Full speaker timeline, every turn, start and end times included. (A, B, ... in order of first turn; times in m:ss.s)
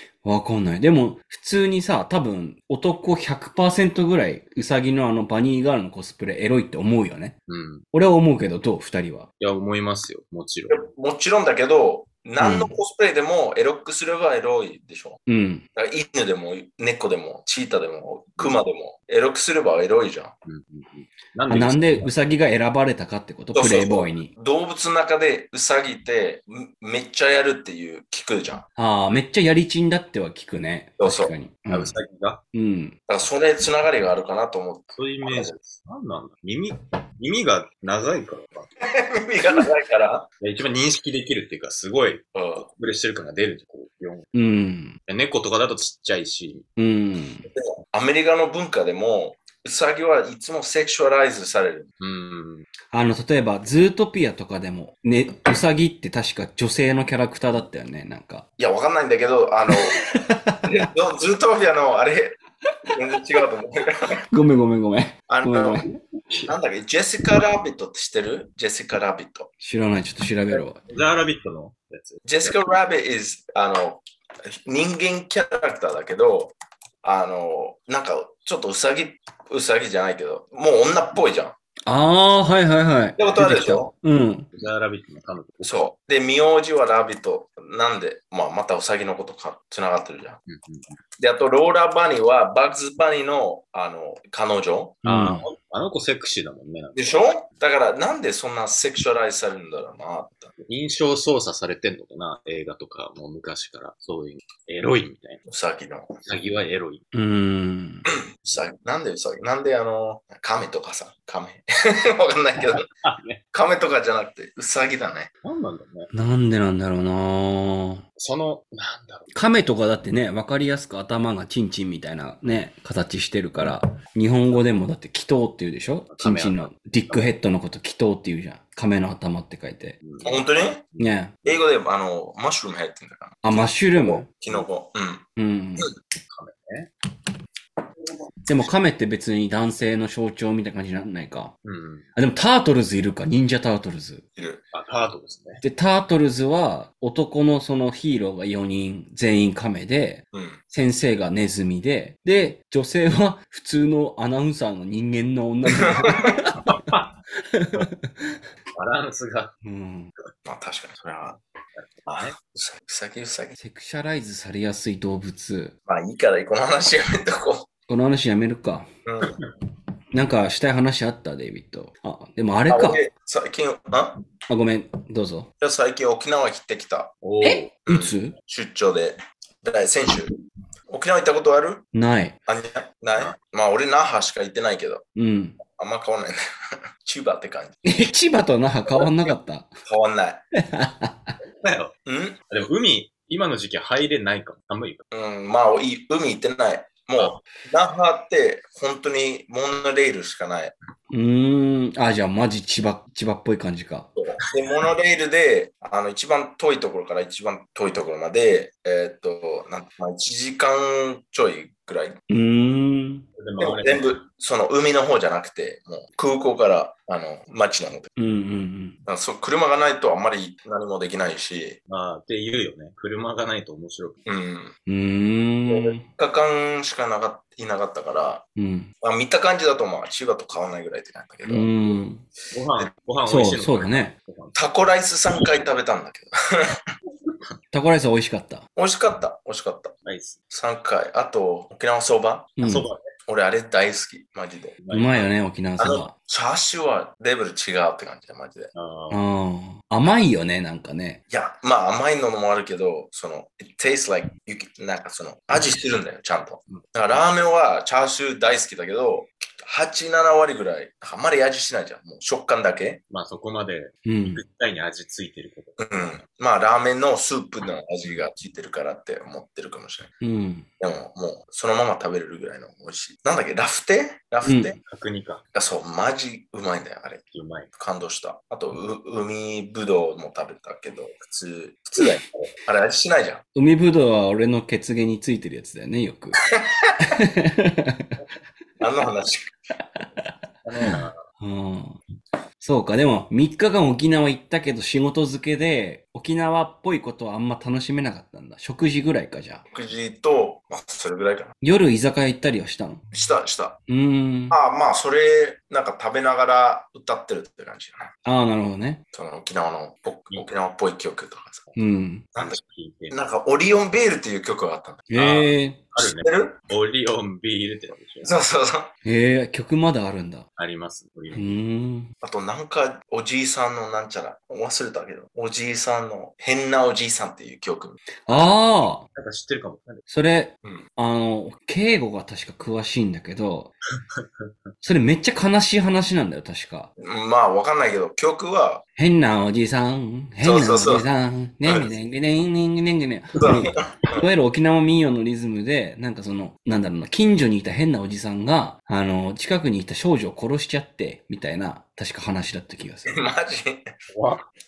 0:00.2-0:07.4 A
0:07.5-0:07.8 B
0:07.9-0:09.3 A
0:09.4-0:10.8 B
0:10.7-0:15.2 C
0:12.4-0:12.7 A
0:15.3-0:15.6 A
0:15.7-0:20.3 C
0:20.4-0:22.1 B
0:21.5-0:24.3 A
0:23.5-0:28.6 C
0:28.8-0:32.0 A
0:31.0-0:31.3 C
0:31.7-0:32.4 B
0:32.5-0:33.0 A
0:33.1-0:35.5 C
0:34.9-0:38.7 B
0:38.8-0:40.3 C
0:40.4-0:44.3 B
0:42.3-0:42.6 C
0:44.3-0:45.0 A
0:45.1-0:46.7 B
0:46.8-0:47.5 A
0:47.5-0:51.9 C
0:52.0-0:52.7 B
0:52.9-0:58.4 A
0:58.6-1:00.0 C
0:59.8-1:00.7 A
1:00.6-1:02.4 C
1:02.9-1:04.2 C
1:04.3-1:06.0 A
1:05.3-1:05.8 C
1:06.5-1:09.5 C
1:09.6-1:10.8 A
1:10.5-1:12.6 B
1:12.2-1:21.5 C
1:21.8-1:24.5 A
1:23.2-1:23.9 C
1:24.5-1:25.8 B
1:25.6-1:30.4 C
1:30.5-1:30.9 B
1:31.2-1:35.0 C
1:35.0-1:35.5 A
1:35.0-1:37.2 B
1:37.0-1:40.5 C
1:40.6-1:45.4 B
1:45.5-1:46.1 C
1:46.3-1:47.0 B
1:47.1-1:48.1 A
1:48.4-1:52.8 C
1:52.7-1:53.4 B
1:53.5-1:55.3 C
1:55.4-1:56.1 B
1:56.1-1:58.0 A
1:58.2-1:59.3 B
1:59.3-2:10.0 A
2:06.1-2:07.2 B
2:10.0-2:11.6 B
2:10.2-2:10.8 C
2:11.0-2:11.3 A
2:11.4-2:15.2 C
2:13.4-2:14.2 A
2:15.4-2:15.9 A
2:16.3-2:16.9 B
2:18.5-2:21.5 A
2:21.6-2:22.1 B
2:22.2-2:24.2 A
2:24.4-2:24.6 C
2:24.7-2:25.6 B
2:25.6-2:36.9 A
2:30.3-2:30.6 C
2:35.8-2:36.3 C
2:36.7-2:37.0 B
2:37.5-2:38.4 A
2:38.8-2:39.5 B
2:39.6-2:40.1 A
2:40.4-2:41.4 C
2:42.1-2:42.3 B
2:42.1-2:43.5 C
2:43.6-2:45.7 A
2:45.9-2:47.7 C
2:47.9-2:48.9 A
2:49.0-2:49.4 C
2:50.1-2:53.0 A
2:52.7-2:54.2 C
2:54.5-2:55.5 A
2:55.6-2:57.1 C
2:57.2-2:57.7 B
2:57.4-2:58.3 A
2:57.8-3:00.3 C
3:00.9-3:01.8 C
3:01.9-3:02.4 A
3:02.5-3:05.0 C
3:05.2-3:05.6 A
3:05.7-3:06.4 C
3:07.0-3:08.0 C
3:07.8-3:09.7 A
3:08.9-3:09.3 C
3:09.8-3:10.4 C
3:10.6-3:11.3 A
3:11.5-3:11.9 B
3:12.0-3:12.4 C
3:12.5-3:15.0 B
3:15.1-3:20.7 C
3:21.1-3:24.1 A
3:24.2-3:32.2 C
3:32.3-3:33.2 A
3:33.4-3:34.1 B
3:33.6-3:38.1 C
3:38.2-3:39.0 A
3:39.0-3:41.8 C
3:41.9-3:44.2 B
3:44.2-3:44.7 C
3:44.9-3:46.0 A
3:45.7-3:48.4 C
3:48.6-3:48.9 A
3:49.0-3:51.7 C
3:51.5-3:52.2 A
3:52.5-3:54.6 B
3:53.2-3:54.1 A
3:54.5-3:56.8 C
3:57.7-3:58.6 A
3:58.8-3:59.9 C
4:00.0-4:00.4 B
4:00.5-4:02.5 C
4:02.6-4:02.9 A
4:02.6-4:03.0 B
4:03.3-4:04.8 C
4:04.8-4:05.3 B
4:04.9-4:06.1 A
4:05.8-4:08.7 C
4:08.7-4:09.2 B
4:09.1-4:11.2 A
4:11.3-4:23.0 C
4:23.1-4:26.1 B
4:24.0-4:24.4 A
4:25.8-4:30.1 C
4:30.2-4:30.7 A
4:30.8-4:34.8 C
4:34.4-4:34.7 A
4:34.8-4:35.4 B
4:35.5-4:37.2 C
4:37.3-4:37.7 B
4:37.8-4:43.4 C
4:43.5-4:46.4 A
4:46.6-4:46.9 C
4:47.0-4:48.1 A
4:48.8-4:49.5 C
4:50.0-4:52.0 A
4:50.6-4:51.2 B
4:52.6-4:59.6 A
4:59.7-5:01.5 C
5:01.6-5:03.0 A
5:03.1-5:03.8 C
5:03.9-5:04.6 A
5:04.5-5:08.1 C
5:08.2-5:09.0 A
5:09.1-5:11.7 C
5:11.8-5:12.2 A
5:12.4-5:13.2 B
5:13.1-5:15.1 C
5:15.1-5:15.8 A
5:15.1-5:18.3 B
5:16.0-5:16.6 C
5:18.2-5:18.9 C
5:19.0-5:20.4 A
5:20.6-5:21.5 B
5:21.3-5:22.1 A
5:22.2-5:28.0 C
5:28.3-5:29.0 A
5:29.1-5:30.1 B
5:30.1-5:33.7 A
5:34.8-5:36.9 A
5:37.0-5:38.8 C
5:39.0-5:53.2 A
5:40.4-5:41.0 C
5:43.4-5:44.2 C
5:53.1-5:53.9 C
5:54.1-5:54.4 B